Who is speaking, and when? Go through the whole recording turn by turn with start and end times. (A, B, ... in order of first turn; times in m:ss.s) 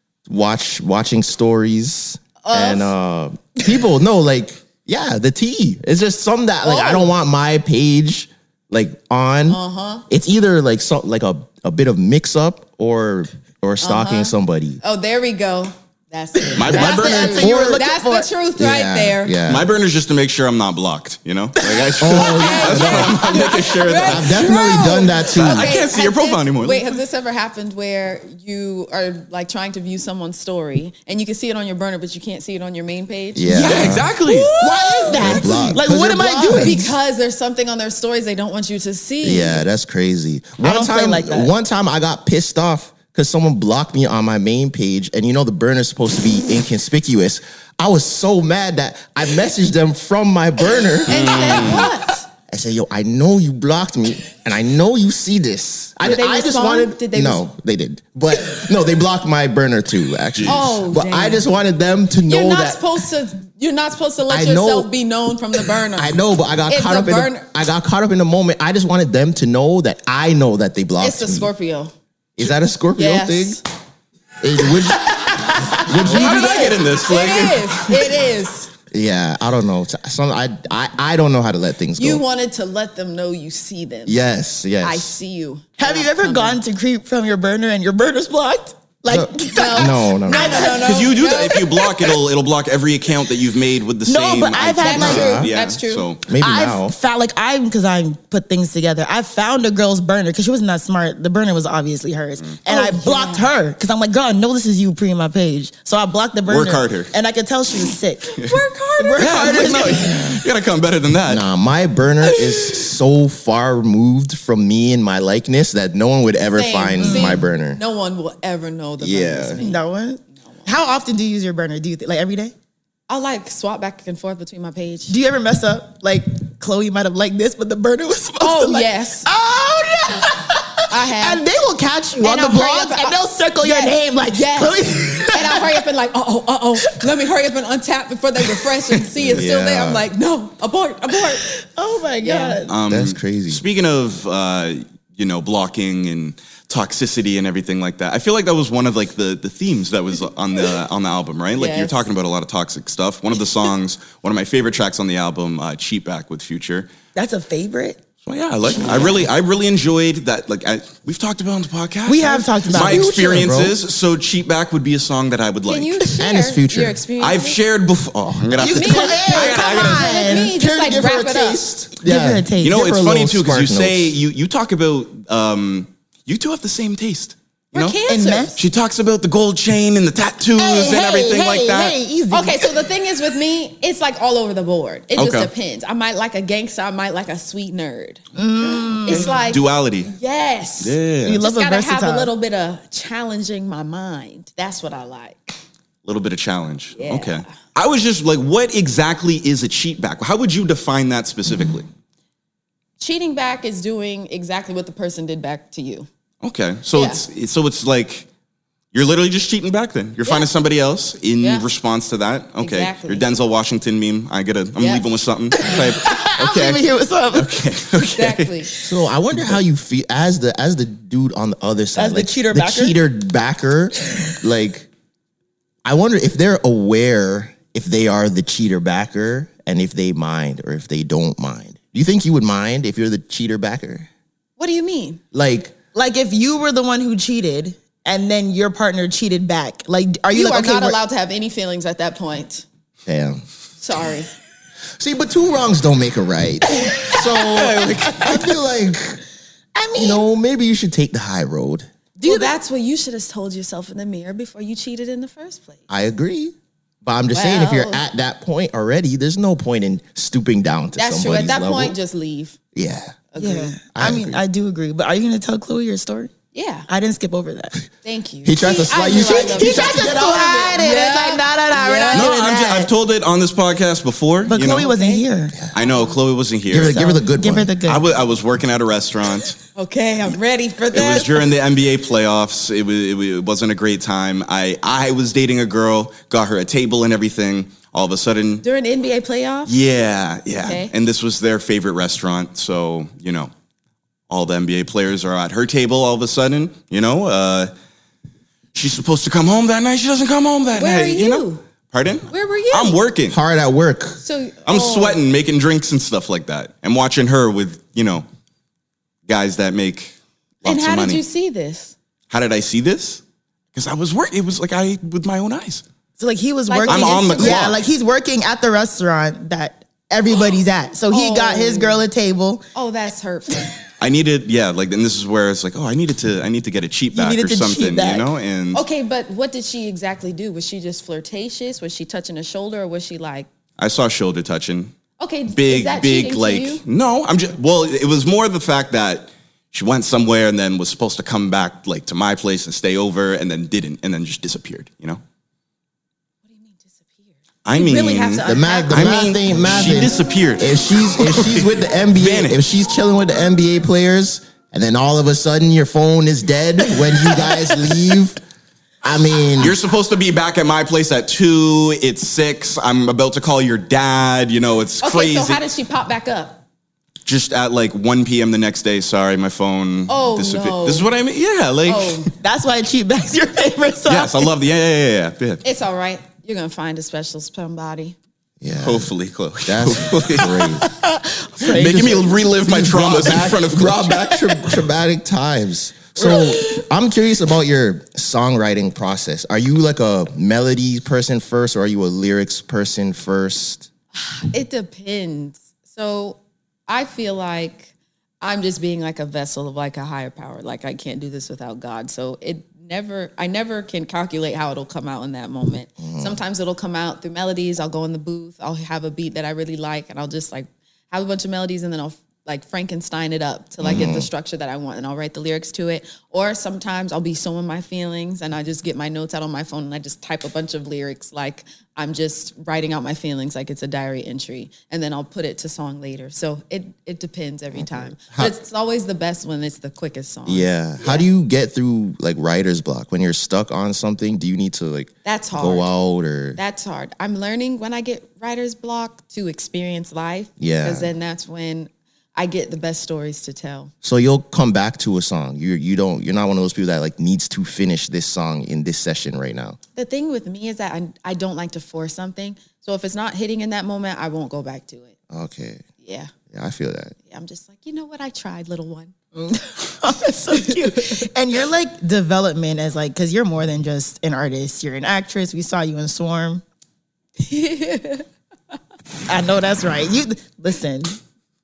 0:00.3-0:14.8 A
0:02.4-0:02.9 B
0:06.6-0:07.1 B
0:09.5-0:10.0 B
0:13.8-0:19.4 B
0:16.6-0:18.3 C
0:16.6-0:17.5 D
0:17.1-0:17.8 A
0:18.6-0:19.7 A
0:19.5-0:24.5 D
0:22.0-0:25.8 A
0:22.2-0:35.8 B
0:25.3-0:27.0 D
0:33.4-0:34.1 A
0:33.5-0:34.0 C
0:33.6-0:34.5 D
0:34.6-0:36.9 C
0:35.1-0:36.9 A
0:36.5-0:39.6 B
0:39.2-0:51.8 A
0:40.6-0:41.5 C
0:51.1-0:52.2 B
0:51.1-0:51.9 D
0:52.5-1:02.9 A
0:56.0-0:57.4 B
1:00.4-1:00.6 D
1:00.5-1:01.5 B
1:02.3-1:07.5 B
1:04.3-1:04.9 A
1:06.0-1:11.5 A
1:11.0-1:11.9 B
1:12.4-1:13.6 A
1:12.9-1:13.6 B
1:14.4-1:16.8 A
1:15.9-1:18.0 D
1:16.0-1:18.7 B
1:18.9-1:22.2 A
1:22.0-1:24.2 B
1:24.1-1:25.2 A
1:24.8-1:26.6 B
1:25.8-1:32.1 C
1:29.1-1:30.8 A
1:29.5-1:31.6 B
1:30.8-1:36.2 D
1:34.1-1:35.4 C
1:34.8-1:36.1 B
1:34.9-1:35.5 A
1:36.3-1:37.0 A
1:36.3-1:48.4 C
1:42.7-1:43.5 B
1:46.5-1:47.1 D
1:48.3-1:50.0 B
1:49.0-1:50.4 C
1:49.2-1:51.4 D
1:51.3-1:57.8 A
1:52.4-1:52.8 B
1:56.6-1:59.8 B
1:57.0-1:57.4 C
1:59.0-1:59.6 A
1:59.6-2:02.5 C
2:00.3-2:00.7 B
2:03.1-2:05.2 B
2:05.1-2:15.8 C
2:08.4-2:09.3 B
2:10.9-2:11.4 B
2:12.2-2:21.4 B
2:16.9-2:17.1 C
2:18.5-2:19.0 C
2:19.2-2:20.1 A
2:21.3-2:22.8 C
2:22.2-2:22.6 B
2:22.7-2:36.9 D
2:22.9-2:23.6 A
2:31.6-2:32.0 B
2:37.2-2:38.0 C
2:38.2-2:46.0 D
2:42.1-2:43.5 C
2:42.7-2:43.8 A
2:45.7-2:47.6 B
2:46.2-2:47.0 A
2:47.2-2:50.3 D
2:48.6-2:50.5 C
2:48.6-2:51.6 B
2:50.0-2:54.2 A
2:52.0-2:52.8 C
2:52.6-2:58.0 D
2:57.7-2:58.6 B
2:58.1-2:58.6 C
2:58.6-3:02.0 D
3:00.6-3:02.6 C
3:02.3-3:08.2 B
3:05.2-3:05.5 D
3:08.4-3:09.4 C
3:08.6-3:10.1 D
3:09.1-3:15.6 B
3:10.8-3:11.4 D
3:11.2-3:12.3 C
3:16.0-3:21.9 D
3:16.9-3:17.5 B
3:23.0-3:26.1 B
3:26.4-3:28.3 D
3:26.9-3:27.2 B
3:28.9-3:38.5 D
3:31.4-3:31.7 B
3:32.6-3:33.3 B
3:34.8-3:35.0 B
3:35.6-3:37.6 C
3:38.2-3:38.7 B
3:38.8-3:44.9 A
3:42.0-3:43.0 C
3:45.8-3:54.1 A
3:54.6-3:55.2 B
3:55.3-3:55.8 A
3:55.9-4:01.0 C
4:00.3-4:02.6 B
4:03.1-4:03.4 A
4:03.8-4:04.3 B
4:05.0-4:09.2 A
4:07.4-4:08.4 D
4:08.0-4:08.3 C
4:09.8-4:10.2 C
4:10.0-4:11.9 A
4:12.2-4:15.9 B
4:12.2-4:12.5 C
4:15.9-4:22.0 A
4:17.3-4:18.0 B
4:21.0-4:22.6 B
4:22.8-4:23.2 A
4:23.3-4:23.8 B
4:23.4-4:26.3 C
4:23.9-4:24.4 A
4:26.5-4:26.9 B
4:26.9-4:27.8 C
4:28.0-4:32.3 B
4:28.4-4:30.8 A
4:29.0-4:32.9 C
4:32.1-4:34.9 D
4:34.5-4:35.6 C
4:34.8-4:35.2 B
4:35.6-4:35.8 A
4:35.7-4:37.0 D
4:36.7-4:37.7 A
4:36.8-4:38.0 C
4:37.8-4:39.6 D
4:39.8-4:41.4 B
4:40.9-4:48.6 D
4:48.6-4:49.7 B
4:49.7-4:53.5 D
4:50.6-4:50.9 B
4:54.3-4:57.7 D
4:58.7-5:03.4 D
5:00.8-5:01.6 B
5:02.3-5:03.0 B
5:03.3-5:04.2 A
5:04.2-5:05.2 B
5:04.7-5:08.2 D
5:09.3-5:11.2 D
5:10.6-5:12.0 B
5:12.3-5:13.2 D
5:13.8-5:15.8 D
5:16.2-5:22.7 C
5:16.7-5:17.7 B
5:16.9-5:17.8 D
5:21.1-5:22.0 B
5:22.8-5:23.7 B
5:24.0-5:28.8 D
5:27.1-5:28.3 C
5:28.7-5:33.5 B
5:33.8-5:34.9 D
5:35.2-5:36.8 B
5:35.5-5:45.2 D
5:46.4-5:49.3 B
5:47.6-5:52.6 D
5:48.4-5:58.4 A
5:59.0-5:59.8 A
5:59.6-6:05.6 D
6:05.0-6:06.6 B
6:07.3-6:12.3 D
6:10.1-6:11.1 B
6:11.9-6:12.3 B
6:12.4-6:14.5 C
6:14.1-6:15.6 D
6:15.6-6:18.2 B
6:18.6-6:19.1 A
6:18.8-6:21.1 D
6:19.6-6:20.8 A
6:21.6-6:22.2 C
6:21.6-6:24.3 D
6:21.7-6:33.9 A
6:26.2-6:26.8 B
6:34.2-7:11.3 B
6:46.0-6:46.4 A
6:53.8-6:54.3 A
7:07.8-7:08.6 A
7:10.5-7:16.6 A
7:15.2-7:15.9 B
7:16.6-7:23.9 B
7:20.6-7:21.1 A
7:24.0-7:29.8 A
7:30.0-7:35.2 B
7:35.3-7:35.8 A
7:36.0-7:36.3 B
7:36.5-7:37.2 A
7:37.3-7:39.1 B
7:39.4-7:46.6 C
7:47.4-7:48.3 B
7:49.3-7:51.2 C